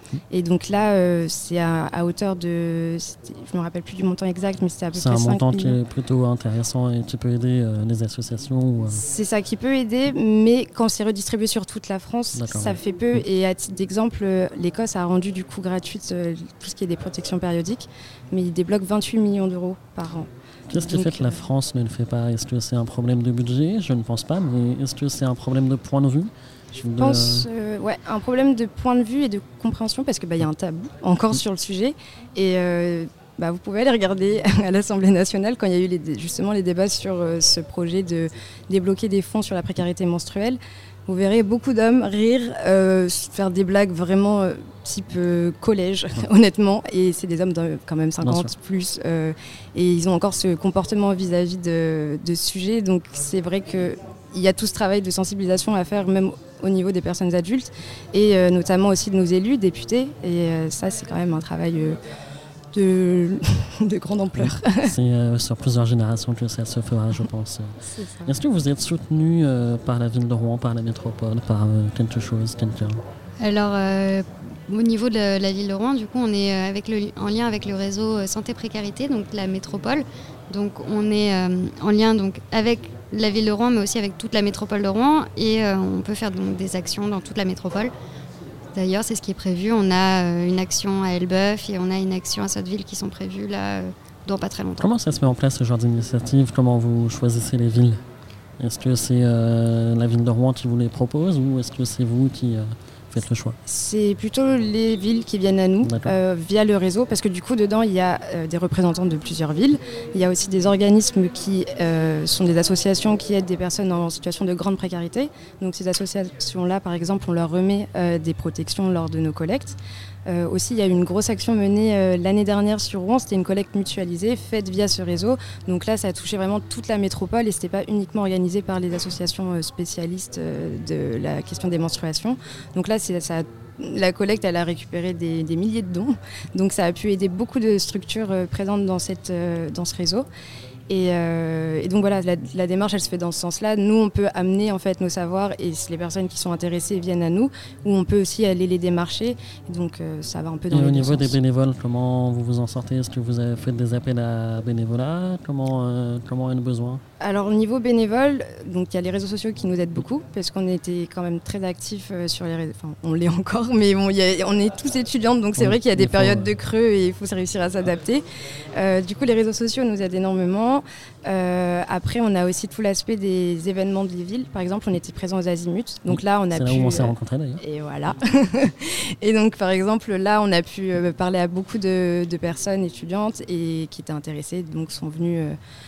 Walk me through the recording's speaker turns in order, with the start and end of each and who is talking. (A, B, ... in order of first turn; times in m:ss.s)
0:00.3-0:05.8 A
0:04.9-0:09.0 B
0:08.9-0:21.5 A
0:12.3-0:13.2 B
0:20.7-0:27.5 B
0:26.9-1:02.0 A
0:48.2-0:48.5 B
1:02.7-1:04.9 A
1:04.8-1:13.0 B
1:07.8-1:08.3 A
1:13.4-1:27.9 C
1:28.7-1:34.9 C
1:34.8-1:38.0 B
1:38.6-1:43.6 B
1:43.6-2:20.3 A
1:45.8-1:46.2 B
2:20.9-2:31.4 A
2:30.7-2:37.0 B
2:37.2-2:48.2 A
2:45.6-2:46.5 B
2:48.7-3:05.6 A
2:56.1-2:57.6 B